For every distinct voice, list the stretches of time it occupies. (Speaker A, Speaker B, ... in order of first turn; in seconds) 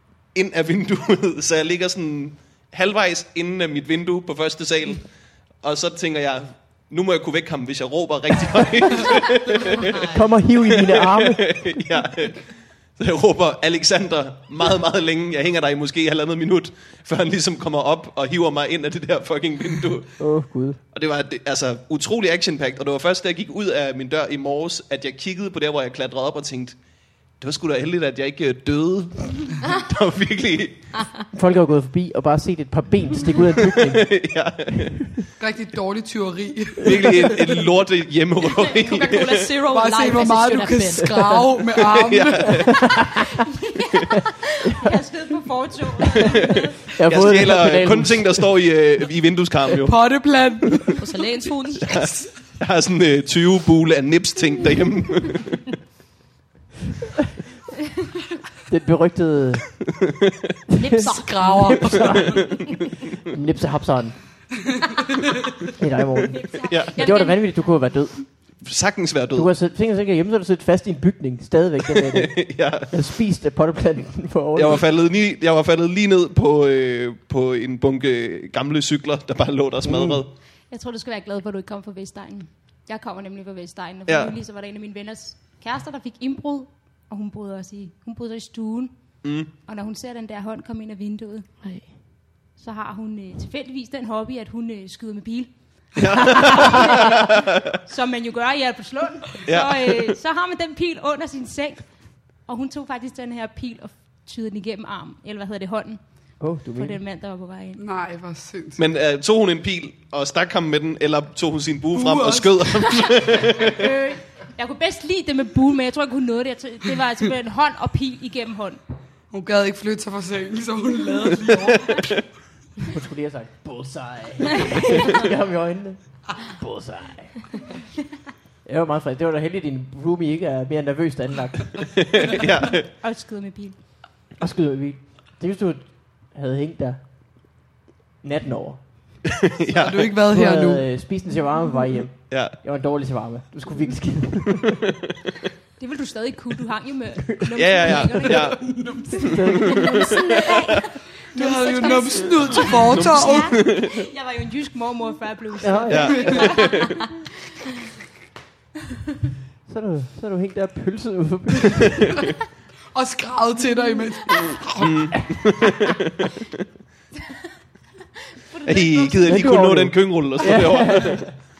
Speaker A: 0.3-10.1, 10.7-20.3, 20.9-26.8, 27.4-30.9, 33.7-35.0, 36.8-39.5, 41.9-42.8, 47.0-50.0, 51.8-55.6, 66.7-66.9, 68.6-69.5, 72.1-73.0, 74.5-80.3, 84.1-84.3, 89.2-89.5, 96.0-97.2, 99.5-100.2, 108.8-113.7, 131.8-132.8, 139.4-140.1, 142.3-142.6, 147.6-148.7, 149.4-150.2, 152.5-154.0, 155.9-156.9, 164.8-166.0, 168.6-171.3
Speaker B: 10.0-11.7, 20.2-20.8, 31.3-34.2, 34.8-35.2, 42.6-43.2, 46.9-48.5, 58.7-59.9, 60.8-62.7, 63.3-64.2, 65.8-68.3, 69.3-74.8, 79.8-80.2, 106.4-107.0, 122.9-127.7, 128.6-132.0, 134.4-137.0, 138.2-139.3, 140.3-144.8, 149.3-150.1, 155.6-156.4, 159.7-162.2, 169.2-171.4
Speaker C: 35.4-37.4, 39.7-42.6, 49.8-51.0, 107.8-108.8, 111.9-113.1, 119.3-122.1, 139.7-140.9, 148.6-149.3, 151.3-153.6, 162.9-165.0
Speaker D: 38.4-41.4, 51.0-52.0, 60.8-62.7, 67.0-67.3, 91.6-92.0, 149.8-150.7
Speaker E: 43.1-46.8, 66.3-67.4, 80.7-91.9, 92.5-107.8, 113.7-118.8, 132.8-133.8, 145.8-148.7, 149.8-157.2, 168.4-169.5